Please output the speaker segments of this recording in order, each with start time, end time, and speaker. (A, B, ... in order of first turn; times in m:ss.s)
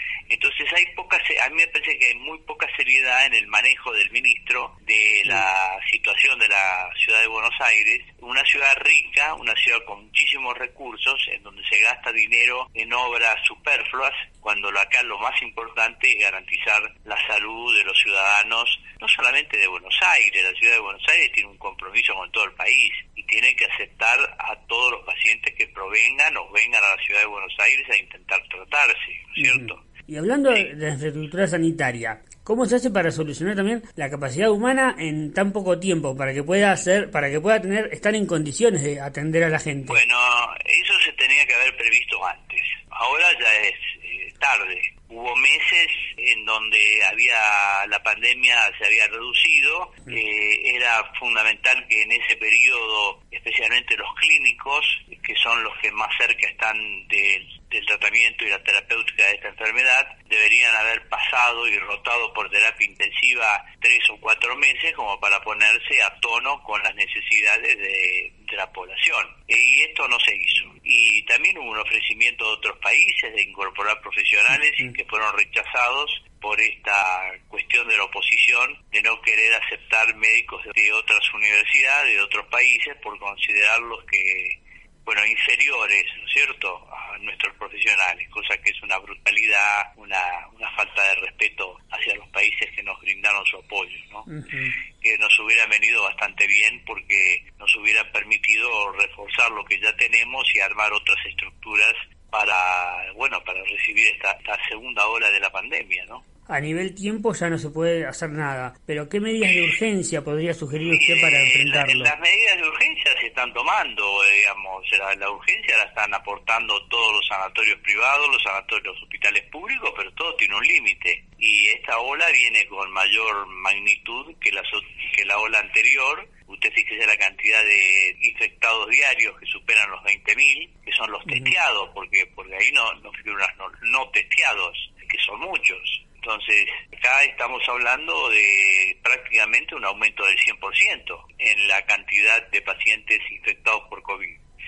0:00.3-0:29.8 A
0:29.4-0:40.0 B
0:39.9-1:34.3 A
1:34.3-1:34.8 B
1:35.0-1:46.2 A
1:46.5-1:52.1 B
1:50.8-2:24.4 A
2:11.3-2:11.6 B